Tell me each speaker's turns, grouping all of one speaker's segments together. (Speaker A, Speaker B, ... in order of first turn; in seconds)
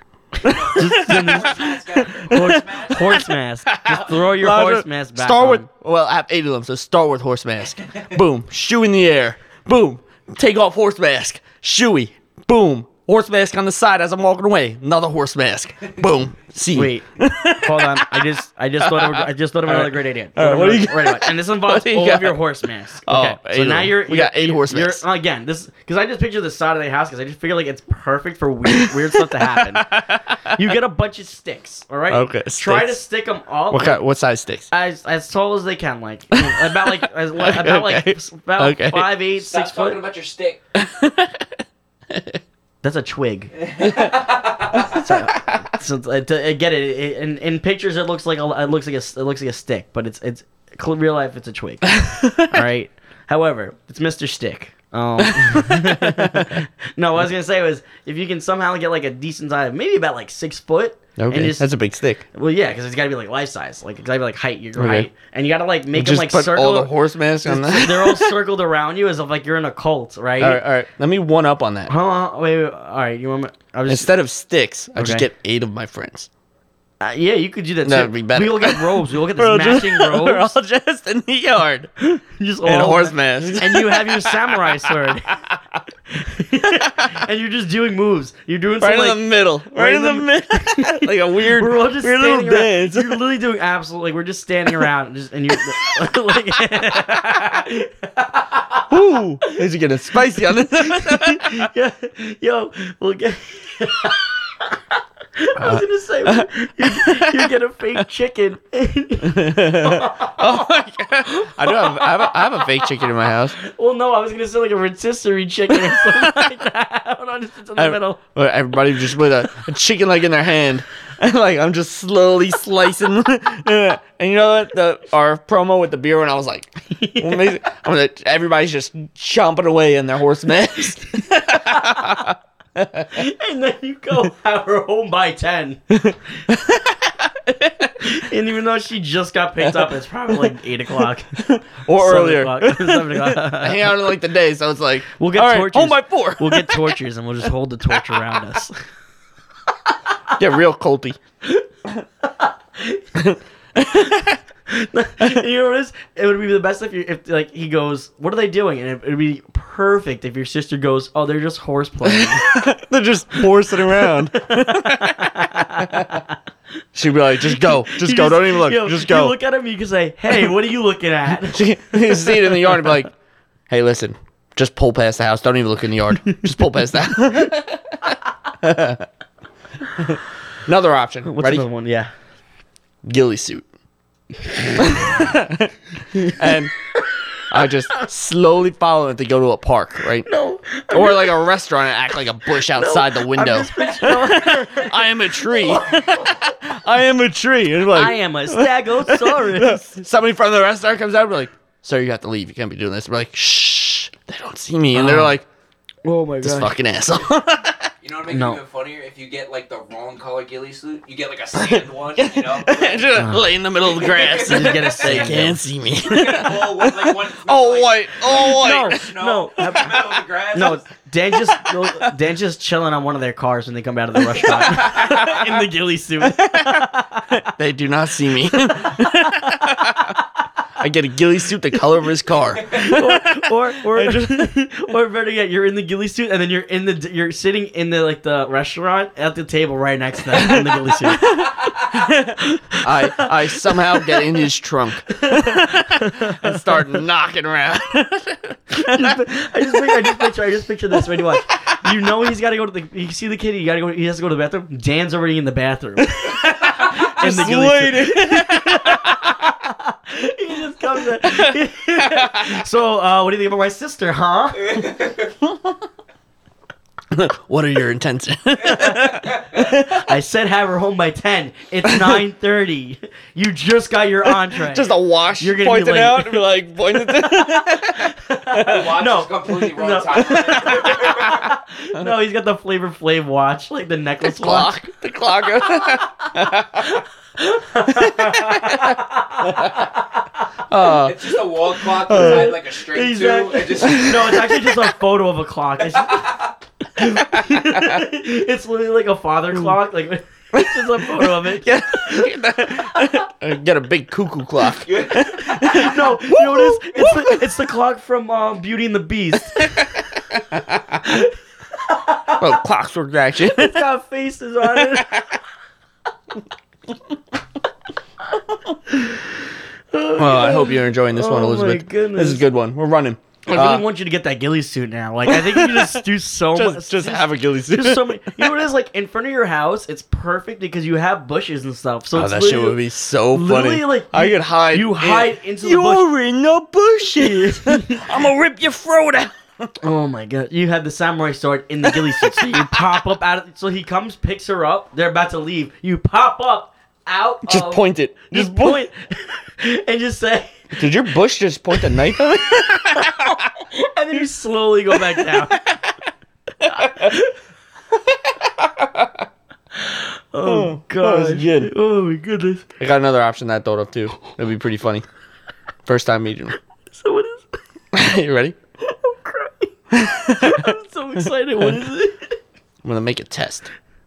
Speaker A: 0.4-22.4, 23.0-25.0, 28.7-30.7, 32.1-33.0, 33.7-34.7, 36.3-39.1, 40.7-42.4, 43.8-44.2, 44.7-45.6, 52.0-52.6, 55.2-56.5, 61.2-62.2, 64.8-65.1, 65.9-68.3, 70.4-71.9, 73.9-76.3, 77.8-81.9, 82.6-85.5, 86.6-87.1, 88.8-93.2, 98.9-101.7, 105.6-108.0, 109.2-113.5, 115.7-116.5, 117.8-133.2, 135.9-138.2, 139.6-140.5, 141.3-147.0, 147.9-148.4, 150.3-151.2, 153.2-154.4, 162.0-166.2, 166.9-169.3, 171.5-173.1, 173.7-179.1, 180.0-181.7, 183.0-183.7, 184.8-186.7, 187.5-190.3, 190.9-205.4, 206.4-207.9, 211.6-219.1, 221.3-222.1, 224.2-225.5, 226.2-230.2, 230.8-234.5, 240.3-250.3, 250.9-251.5, 256.0-259.5, 261.0-262.5, 267.1-270.1, 271.8-272.2, 274.5-278.9, 280.1-282.1, 284.2-287.0, 287.9-289.8, 290.7-291.3, 292.0-292.6, 293.8-294.8, 297.0-298.0, 300.5-307.6, 309.4-311.0, 312.4-313.9, 314.8-315.1, 320.2-323.8, 325.3-328.6, 332.1-339.7, 341.8-343.0, 347.4-348.8, 350.8-353.4, 354.9-355.8, 356.6-357.2, 358.2-359.2, 360.4-361.7, 362.8-365.0, 365.9-366.6, 367.9-368.6, 369.9-370.8, 372.8-373.7
Speaker B: 0.4-5.7, 16.7-17.0, 17.6-29.9, 30.5-34.0, 34.7-40.0, 42.8-43.5, 44.7-61.7, 62.3-66.9, 67.4-70.6, 71.9-74.1, 75.0-75.3, 77.0-80.5, 82.0-85.4, 86.1-98.8, 100.5-104.8, 105.3-110.5, 111.3-112.9, 113.5-118.2, 126.9-127.5, 131.5-132.0, 133.1-136.0, 138.0-141.4, 142.0-143.9, 145.2-148.8, 152.4-153.1, 154.7-162.5, 163.7-166.4, 167.4-172.9, 181.2-182.1, 184.5-185.1, 186.1-186.5, 190.2-191.5, 192.5-196.0, 197.9-199.9, 204.9-205.3, 206.0-206.7, 208.3-208.6, 213.2-213.4, 214.3-215.6, 218.3-227.4, 228.6-230.2, 232.7-244.3, 245.1-246.8, 248.7-264.9, 268.7-276.4, 277.0-284.7, 285.6-286.1, 286.8-290.3, 292.1-296.4, 296.9-303.0, 305.4-310.0, 311.0-312.6, 313.4-315.4, 318.9-319.4, 319.9-322.4, 323.5-332.8, 333.3-336.1, 337.1-338.1, 339.8-350.8, 352.8-355.6, 356.7-357.3, 359.8-362.7, 366.9-367.6, 368.8-372.4
Speaker C: 0.5-3.2, 39.4-40.6, 43.7-44.9, 208.0-213.3, 213.8-220.8, 264.7-265.1, 278.6-281.4, 290.8-294.4, 295.9-296.5, 304.9-305.9